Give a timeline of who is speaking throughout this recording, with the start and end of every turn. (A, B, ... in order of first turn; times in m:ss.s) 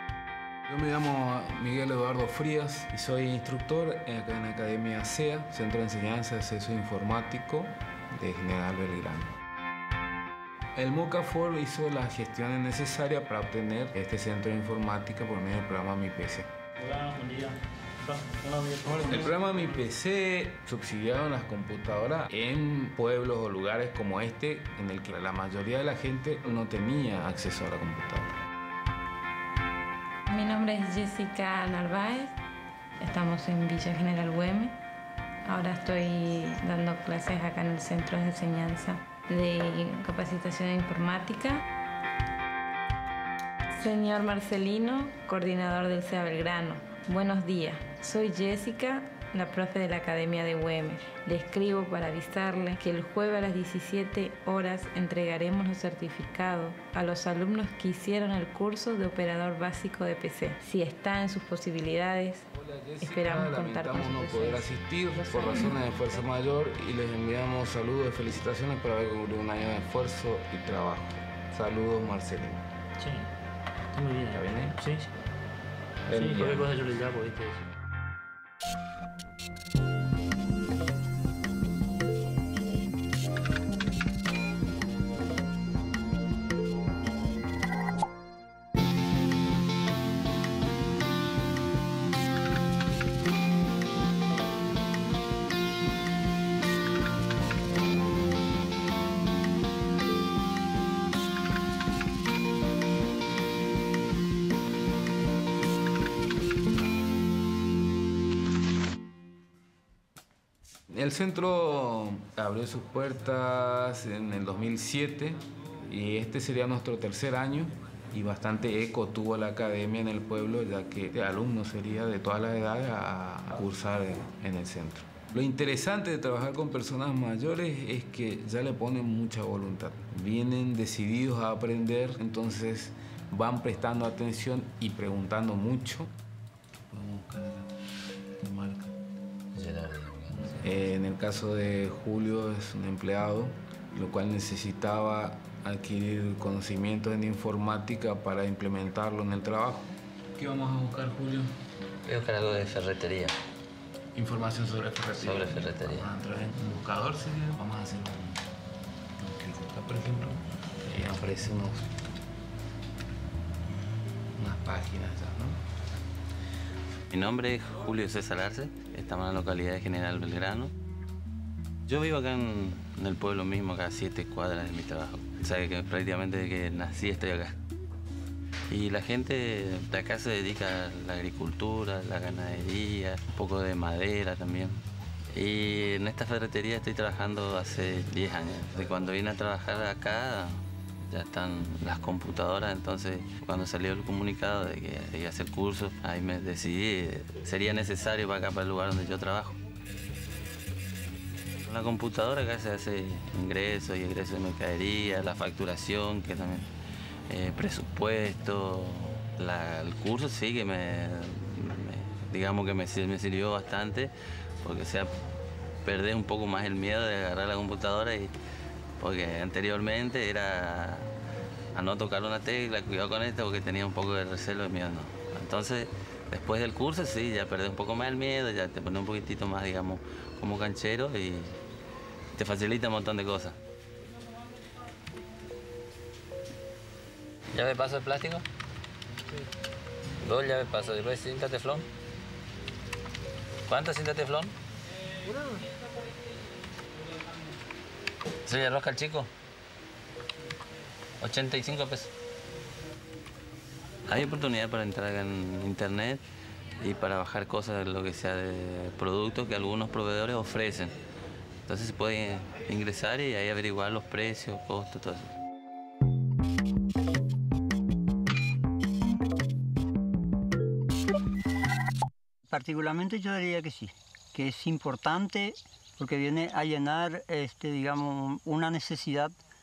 0:00.7-0:09.3 A
0:10.8-0:16.5 A
0:16.8-0:19.9 B
0:18.8-0:28.3 A
0:30.3-0:32.3 C
0:33.0-0:34.7 C
0:35.4-0:41.6 C
0:43.8-1:02.4 C
1:02.5-1:12.6 A
1:03.0-1:06.2 C
1:13.0-1:13.3 B
1:13.9-1:15.1 B
1:14.3-1:14.8 A
1:16.1-1:16.7 A
1:16.1-1:17.7 B
1:50.9-2:16.1 A
2:16.9-2:17.7 A
2:18.4-2:18.9 A
2:19.6-2:20.6 D
2:20.3-2:31.5 A
2:32.0-2:33.4 D
2:34.1-2:38.4 A
2:35.1-2:36.1 D
2:39.2-2:41.9 A
2:44.3-2:45.6 A
2:47.1-2:50.7 D
2:51.9-2:57.5 D
2:58.7-3:04.8 D
3:05.3-3:19.6 D
3:21.6-3:26.7 D
3:27.3-3:34.1 D
3:34.6-3:35.1 D
3:35.8-3:38.3 D
3:39.0-3:41.1 D
3:41.7-3:51.6 D
3:52.4-3:53.6 D
3:57.5-3:58.4 D
4:00.2-4:01.9 D
4:03.7-4:04.5 D
4:08.4-4:09.3 D
4:11.2-4:12.1 D
4:14.1-4:16.2 D
4:16.8-4:20.9 D
4:21.7-4:25.3 D
4:32.5-4:39.4 E